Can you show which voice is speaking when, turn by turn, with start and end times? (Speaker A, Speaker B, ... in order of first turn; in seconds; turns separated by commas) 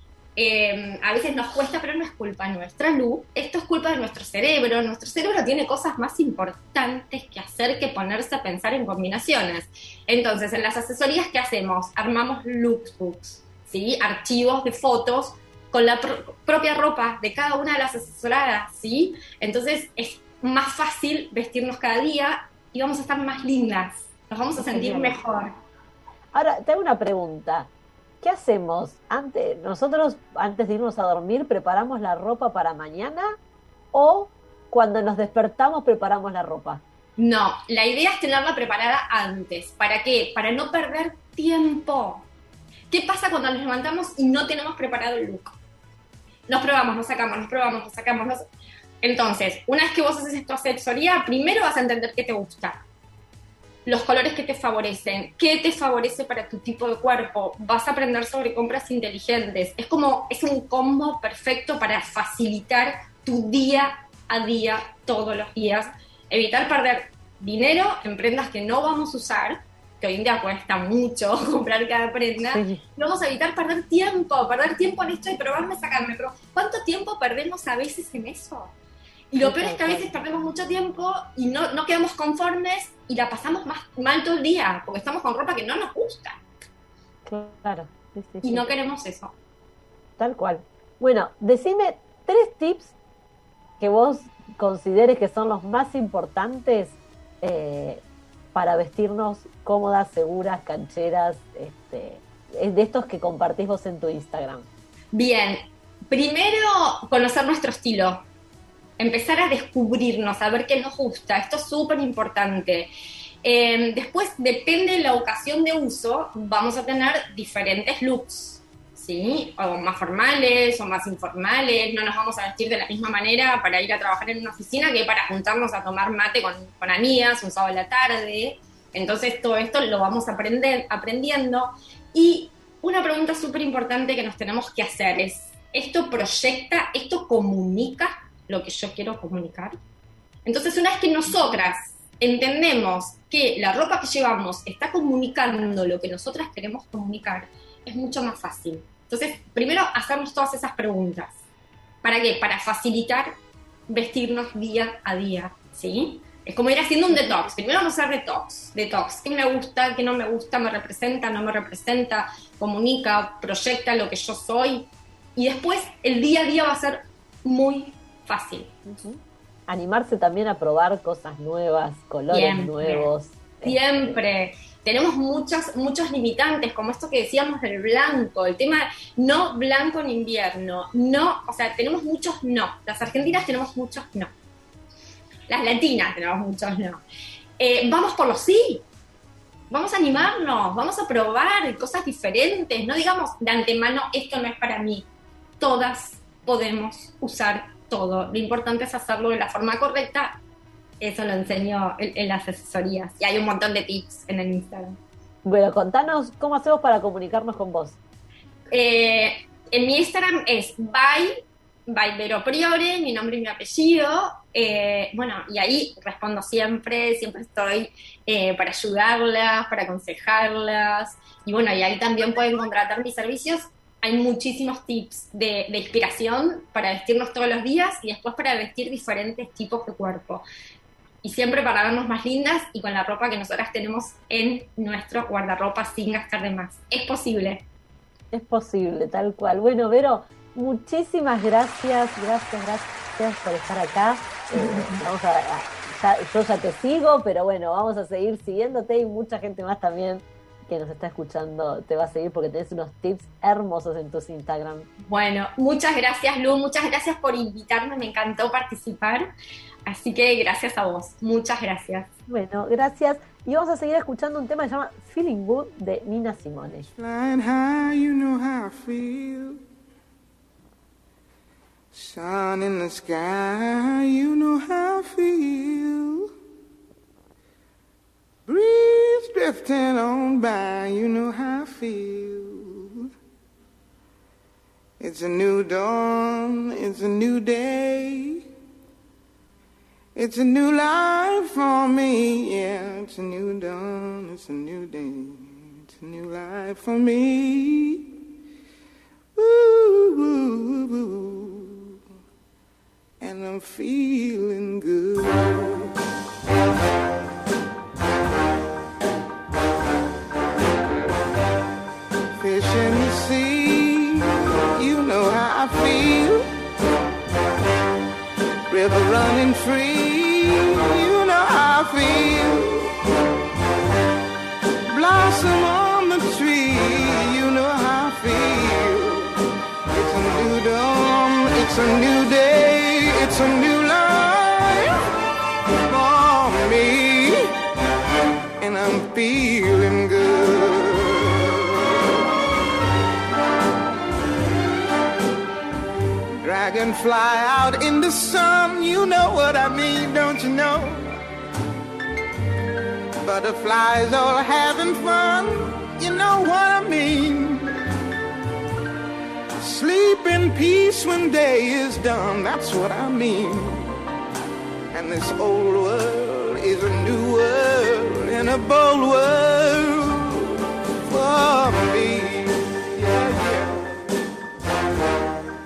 Speaker A: 0.4-25.6, Speaker B: 24.6-25.2, Speaker B: 26.3-33.4, Speaker B: 33.9-36.8, Speaker A: 37.2-42.3, Speaker A: 42.9-45.6, Speaker A: 46.5-48.4, Speaker A: 49.0-52.8, Speaker A: 53.9-78.7, Speaker B: 72.4-72.8, Speaker A: 79.3-86.4, Speaker B: 79.4-80.1, Speaker B: 87.3-88.8, Speaker A: 88.4-89.3, Speaker B: 90.2-93.0, Speaker B: 93.8-104.7, Speaker A: 105.1-108.2, Speaker A: 109.0-112.9, Speaker A: 113.4-139.8, Speaker A: 140.4-151.4, Speaker A: 152.0-168.7, Speaker B: 157.1-157.4, Speaker B: 168.8-173.8, Speaker A: 172.3-173.1, Speaker A: 173.6-184.3, Speaker A: 185.5-187.0, Speaker A: 187.6-188.8, Speaker A: 189.7-195.1, Speaker A: 195.6-200.4, Speaker A: 201.0-205.0, Speaker B: 205.4-208.0, Speaker A: 208.7-230.4, Speaker A: 231.2-237.7, Speaker B: 238.3-254.9, Speaker A: 255.0-259.3, Speaker A: 259.9-262.1, Speaker B: 262.3-266.9, Speaker C: 267.0-269.6, Speaker C: 271.9-276.3, Speaker C: 278.5-283.1, Speaker C: 285.0-288.4, Speaker C: 290.1-298.0, Speaker C: 299.4-301.9, Speaker C: 303.2-305.9, Speaker C: 312.4-316.5, Speaker C: 318.7-322.9, Speaker C: 324.9-329.4, Speaker C: 329.9-335.0, Speaker C: 335.9-337.5, Speaker C: 338.6-341.5, Speaker C: 346.4-351.2, Speaker C: 353.2-357.7, Speaker C: 359.6-363.9, Speaker C: 364.9-374.0